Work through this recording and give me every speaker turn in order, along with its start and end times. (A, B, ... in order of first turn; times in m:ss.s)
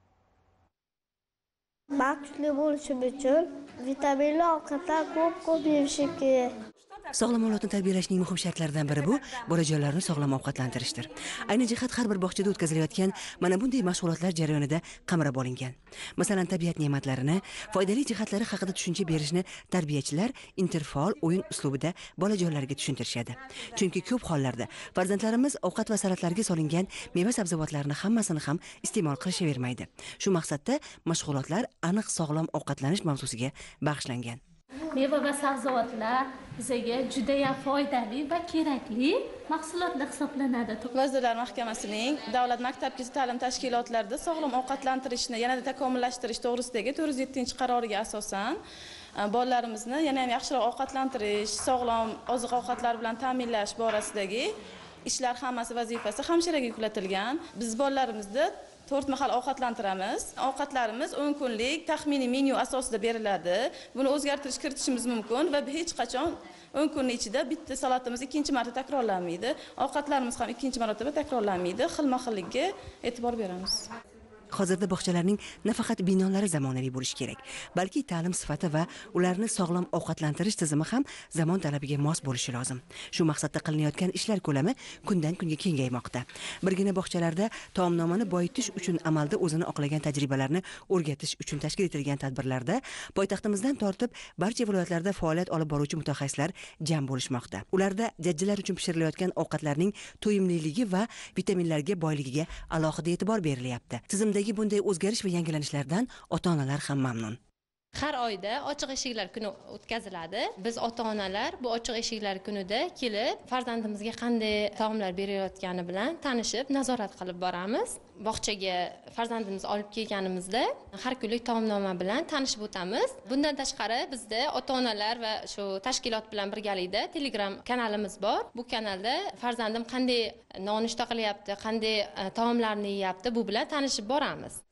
0:01.9-0:06.5 A
0:07.1-0:34.4 B
0:34.9-0:40.9 C
0:40.9-0:48.6 D
0:49.2-0:54.5 D
0:55.0-1:13.8 D
1:14.5-1:47.4 B
1:47.9-2:14.6 E